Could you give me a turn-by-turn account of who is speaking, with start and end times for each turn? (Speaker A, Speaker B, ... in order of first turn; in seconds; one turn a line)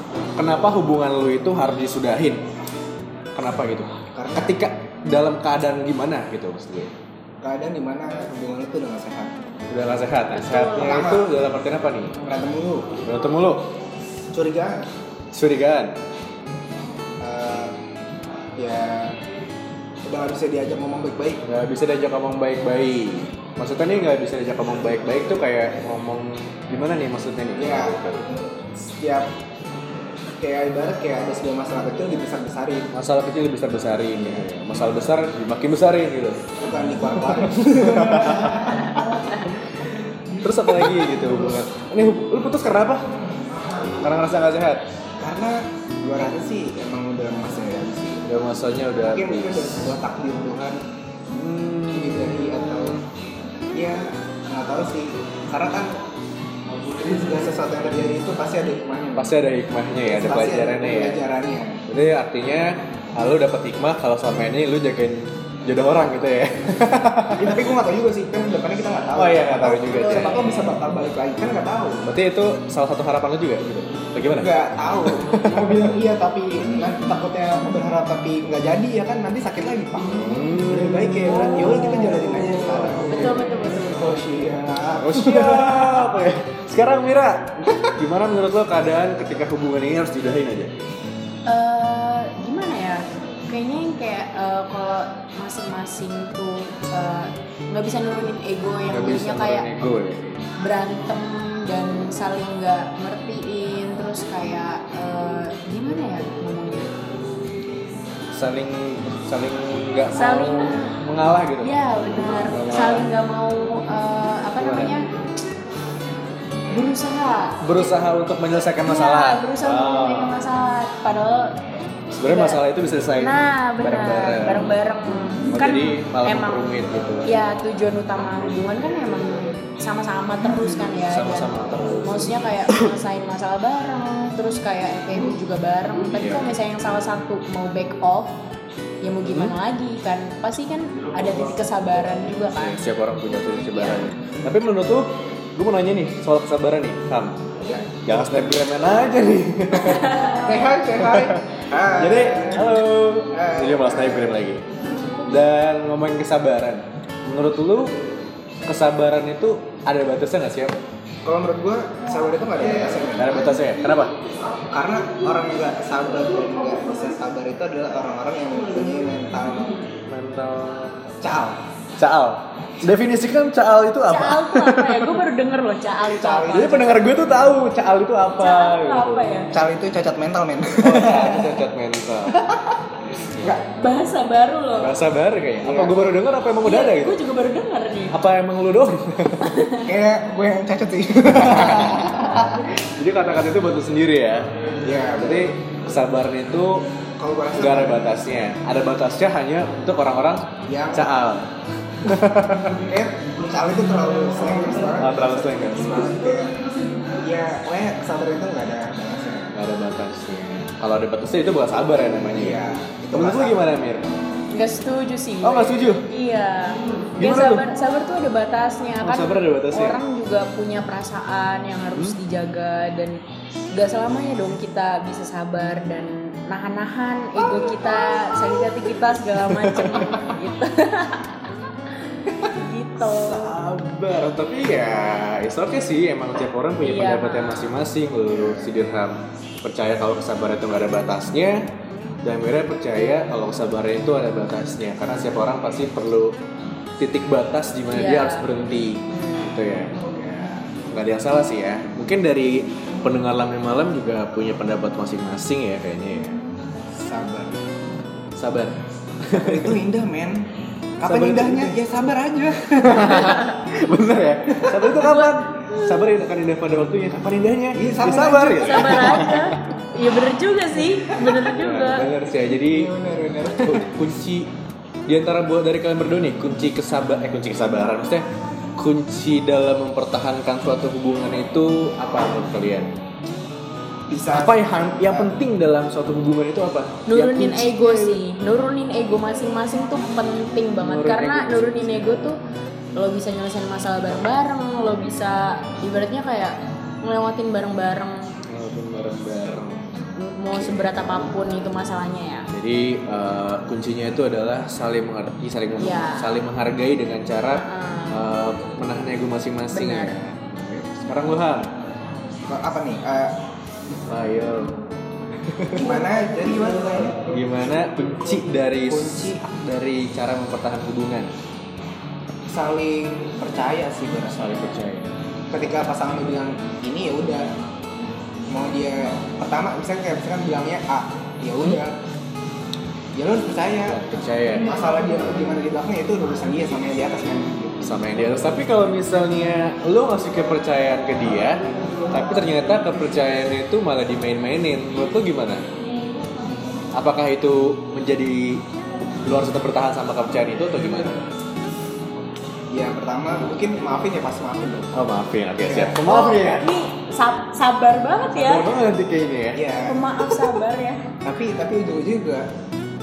Speaker A: 0.4-2.4
Speaker A: 3.4-6.9
Speaker B: 4.1-4.5
Speaker B: 7.4-9.3
Speaker A: 9.7-12.2
Speaker C: 10.3-11.0
Speaker B: 10.8-11.3
Speaker B: 12.2-12.9
Speaker A: 13.0-13.7
Speaker B: 14.3-14.8
Speaker A: 15.3-15.9
Speaker B: 17.2-17.7
Speaker B: 18.6-19.2
Speaker B: 20.0-21.4
Speaker A: 21.4-28.2
Speaker B: 27.6-28.0
Speaker B: 28.8-29.3
Speaker B: 30.4-32.9
Speaker A: 32.9-36.4
Speaker B: 36.5-39.0
Speaker A: 37.4-38.8
Speaker C: 38.8-39.4
Speaker A: 40.4-43.0
Speaker A: 44.0-44.8
Speaker B: 45.2-48.2
Speaker A: 48.2-49.9
Speaker B: 49.0-50.8
Speaker A: 51.3-53.0
Speaker B: 51.9-53.0
Speaker B: 53.7-56.0
Speaker B: 56.9-59.3
Speaker A: 59.1-61.2
Speaker B: 60.0-61.8
Speaker A: 61.9-67.6
Speaker B: 67.3-72.0
Speaker A: 69.2-70.5
Speaker C: 70.0-70.6
Speaker A: 72.0-74.5
Speaker B: 74.3-86.1
Speaker A: 75.0-75.9
Speaker A: 80.1-83.3
Speaker C: 83.0-84.2
Speaker A: 85.0-90.8
Speaker C: 91.5-99.7
Speaker A: 98.9-100.4
Speaker C: 100.6-106.9
Speaker A: 108.3-111.7
Speaker C: 110.1-111.0
Speaker C: 111.6-115.1
Speaker A: 112.3-113.1
Speaker A: 114.6-115.0
Speaker C: 116.7-117.9
Speaker A: 117.6-120.4
Speaker C: 118.8-121.5
Speaker A: 122.2-124.8
Speaker C: 122.3-122.6
Speaker C: 123.2-126.7
Speaker A: 125.5-127.3
Speaker C: 127.2-138.3
Speaker A: 131.0-132.9
Speaker A: 136.1-136.6
Speaker C: 139.0-142.8
Speaker A: 139.2-139.5
Speaker A: 142.6-147.5
Speaker C: 143.7-144.0
Speaker B: 147.6-148.7
Speaker A: 148.1-150.2
Speaker C: 149.8-150.4
Speaker B: 150.3-152.8
Speaker A: 151.0-154.6
Speaker B: 153.3-154.4
Speaker A: 155.3-157.9
Speaker A: 158.7-160.7
Speaker B: 161.2-163.6
Speaker A: 162.8-164.1
Speaker B: 164.7-169.8
Speaker A: 170.1-170.9
Speaker B: 171.2-171.6
Speaker A: 172.0-175.2
Speaker C: 174.0-177.0
Speaker B: 176.1-177.1
Speaker A: 176.5-179.4
Speaker C: 178.4-179.5
Speaker B: 179.5-181.6
Speaker A: 180.8-182.4
Speaker B: 182.3-182.8
Speaker C: 183.5-184.9
Speaker A: 184.8-187.2
Speaker B: 185.6-186.2
Speaker C: 186.6-188.1
Speaker A: 188.1-189.6
Speaker C: 189.4-189.9
Speaker B: 189.8-192.6
Speaker A: 191.4-194.5
Speaker B: 194.8-195.5
Speaker A: 195.1-196.8
Speaker B: 197.2-198.2
Speaker A: 197.6-201.5
Speaker B: 200.7-201.1
Speaker A: 202.0-202.8
Speaker B: 202.8-206.5
Speaker A: 205.0-206.0
Speaker B: 207.2-209.5
Speaker A: 209.5-212.6
Speaker B: 212.3-213.6
Speaker A: 213.1-214.0
Speaker C: 214.5-223.2
Speaker A: 215.4-216.0
Speaker A: 217.2-217.7
Speaker A: 219.0-220.0
Speaker C: 223.7-231.4
Speaker A: 229.6-230.1
Speaker C: 232.4-233.5
Speaker A: 233.0-241.7
Speaker C: 236.8-237.8
Speaker A: 242.2-246.3
Speaker A: 247.0-256.4
Speaker C: 247.9-248.4
Speaker C: 249.1-249.5
Speaker B: 256.9-257.6
Speaker A: 258.4-259.8
Speaker B: 259.3-260.5
Speaker B: 261.0-263.3
Speaker A: 261.0-261.8
Speaker A: 262.8-269.7
Speaker C: 263.2-263.5
Speaker C: 264.9-266.0
Speaker B: 267.7-269.3
Speaker C: 268.6-272.1
Speaker A: 271.1-272.9
Speaker B: 272.6-273.9
Speaker A: 273.5-274.5
Speaker A: 275.1-278.2
Speaker A: 278.8-282.9
Speaker B: 284.1-285.3
Speaker A: 284.3-288.2
Speaker C: 287.1-292.4
Speaker A: 290.8-292.3
Speaker C: 292.9-298.3
Speaker A: 298.5-299.8
Speaker C: 300.2-302.5
Speaker A: 300.5-301.2
Speaker A: 302.5-311.7
Speaker C: 305.8-306.3
Speaker C: 307.5-308.2
Speaker C: 309.7-310.2
Speaker B: 312.5-313.3
Speaker A: 314.1-314.8
Speaker A: 315.4-315.9
Speaker B: 315.7-317.2
Speaker A: 317.3-321.3
Speaker B: 318.9-319.4
Speaker B: 322.5-324.5
Speaker A: 324.3-325.1
Speaker B: 325.5-327.5
Speaker B: 328.5-331.9
Speaker B: 333.1-334.0
Speaker A: 333.9-334.7
Speaker B: 334.6-337.8
Speaker A: 337.8-345.6
Speaker A: 346.9-348.6
Speaker A: 349.2-351.2
Speaker B: 352.7-355.0
Speaker A: 354.9-356.7
Speaker B: 355.6-356.0
Speaker C: 356.0-358.7
Speaker A: 358.4-359.6
Speaker B: 359.5-360.0
Speaker C: 359.9-361.1
Speaker B: 361.2-362.5